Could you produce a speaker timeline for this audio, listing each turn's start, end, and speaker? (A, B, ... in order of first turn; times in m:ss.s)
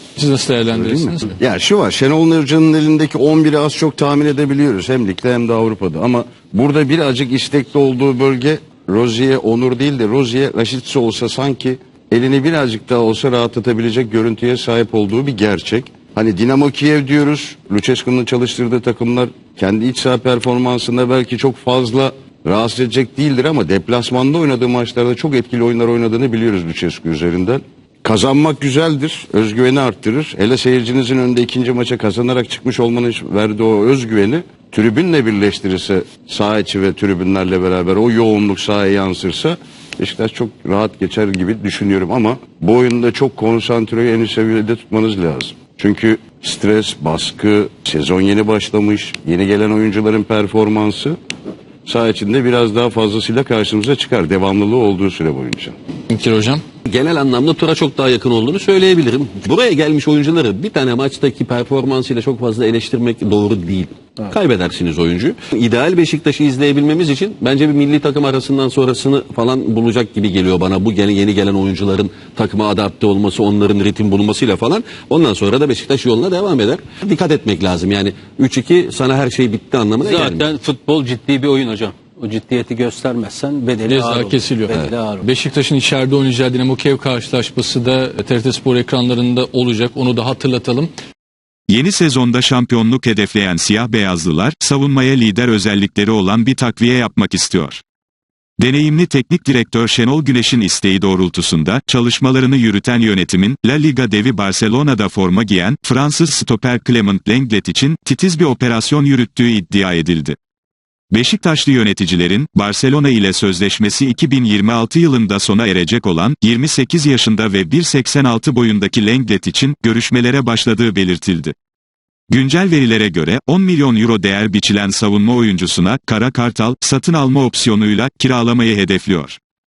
0:00.2-0:01.4 A
0:00.7-0:51.2 B
0:51.8-0:55.7 B
0:56.1-0:56.6 A
0:56.8-1:20.4 C
1:20.0-1:25.3 D
1:23.9-1:30.9 A
1:31.7-1:37.8 E
1:38.6-1:50.4 E
1:51.1-2:01.5 E
2:02.3-2:09.4 E